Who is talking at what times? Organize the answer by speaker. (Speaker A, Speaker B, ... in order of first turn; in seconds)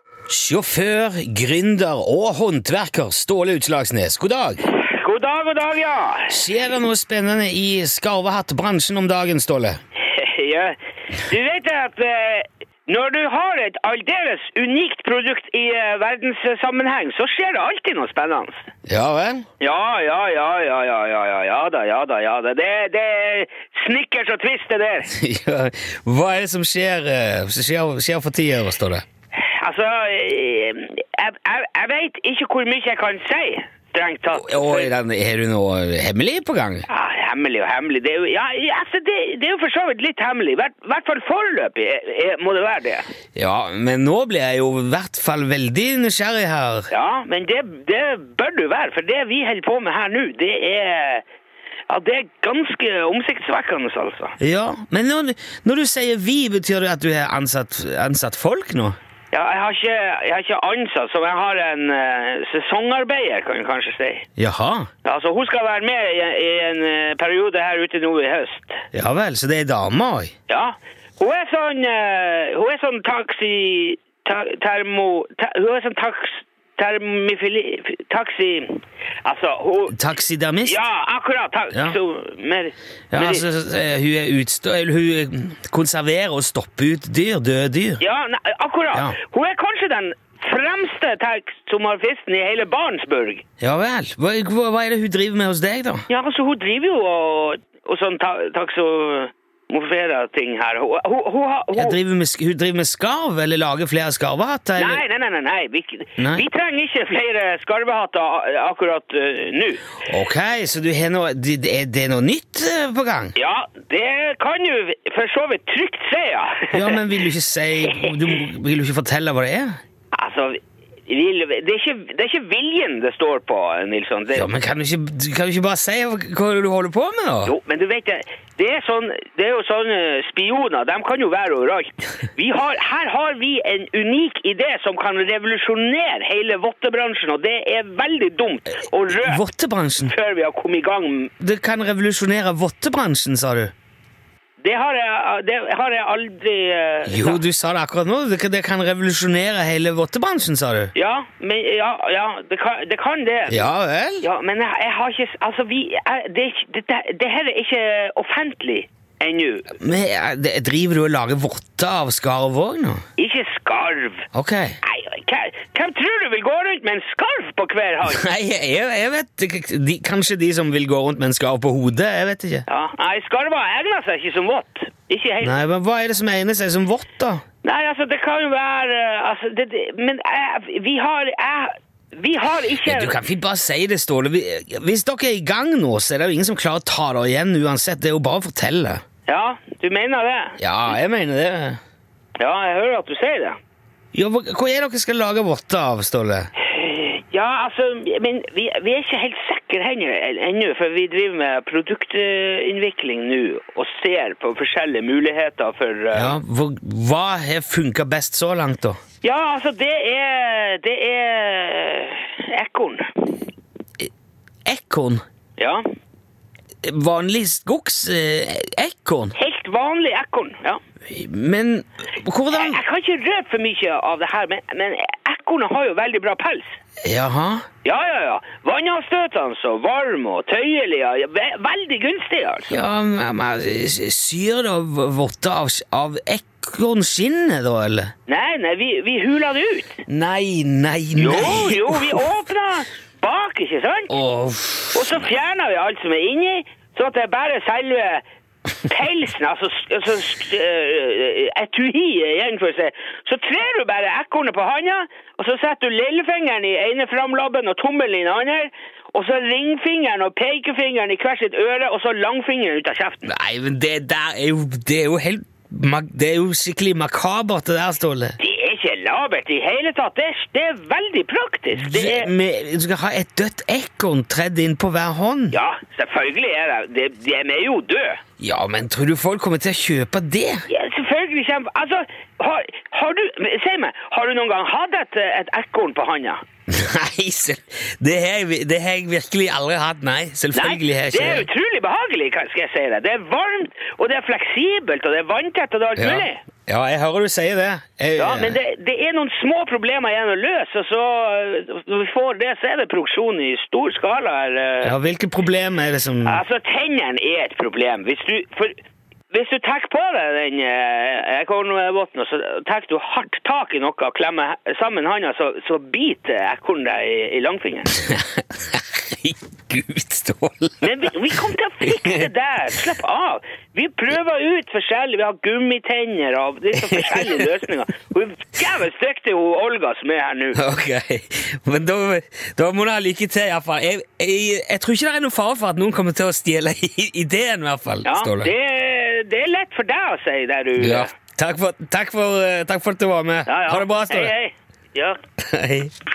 Speaker A: 0.3-4.6, 6.3-9.8, 18.9-19.5, 25.1-29.0, 34.3-36.9, 43.4-46.9, 54.4-59.0, 64.4-64.9, 68.9-70.3, 79.9-80.8, 81.7-82.0, 83.1-88.0, 93.6-96.0, 101.8-105.0, 106.2-106.5, 110.1-113.3, 116.7-119.8, 124.3-127.5, 139.1-140.1, 141.4-143.7, 147.1-150.9, 153.5-154.3, 159.8-163.0, 164.3-164.8, 168.0-172.7, 175.4-177.4, 182.8-189.0, 190.6-191.8, 194.1-196.5, 206.1-209.0, 214.7-215.2, 216.8-219.3, 221.1-222.8, 227.0-227.7, 232.7-238.1, 240.1-242.3, 244.1-245.3, 263.2-268.4, 271.7-275.6, 278.4-280.6, 286.7-291.5, 296.0-298.6, 304.8-306.4, 317.9-322.3, 326.9-327.5, 330.5-338.5, 340.8-344.3, 345.4-345.9
Speaker B: 4.8-6.4, 10.0-18.7, 19.6-25.1, 29.4-34.9, 36.9-43.0, 46.9-51.2, 51.9-54.4, 59.3-64.3, 65.0-68.8, 70.5-80.0, 80.7-83.5, 88.0-93.4, 96.1-102.0, 104.8-109.9, 113.4-117.0, 117.9-118.4, 120.1-124.5, 127.4-139.4, 140.0-141.3, 144.6-147.4, 150.9-153.7, 154.2-159.8, 163.2-164.3, 164.8-168.2, 172.7-175.6, 177.6-183.2, 189.3-190.6, 192.4-193.6, 196.6-206.4, 209.2-213.4, 215.6-215.8, 219.3-220.8, 222.5-226.8, 227.8-232.8, 238.3-240.0, 241.2-244.2, 244.9-248.2, 248.8-263.3, 268.4-272.3, 275.5-278.2, 280.7-286.4, 290.5-296.4, 298.2-304.9, 306.2-308.8, 309.3-318.0, 320.8-330.6, 338.0-341.1, 343.4-345.2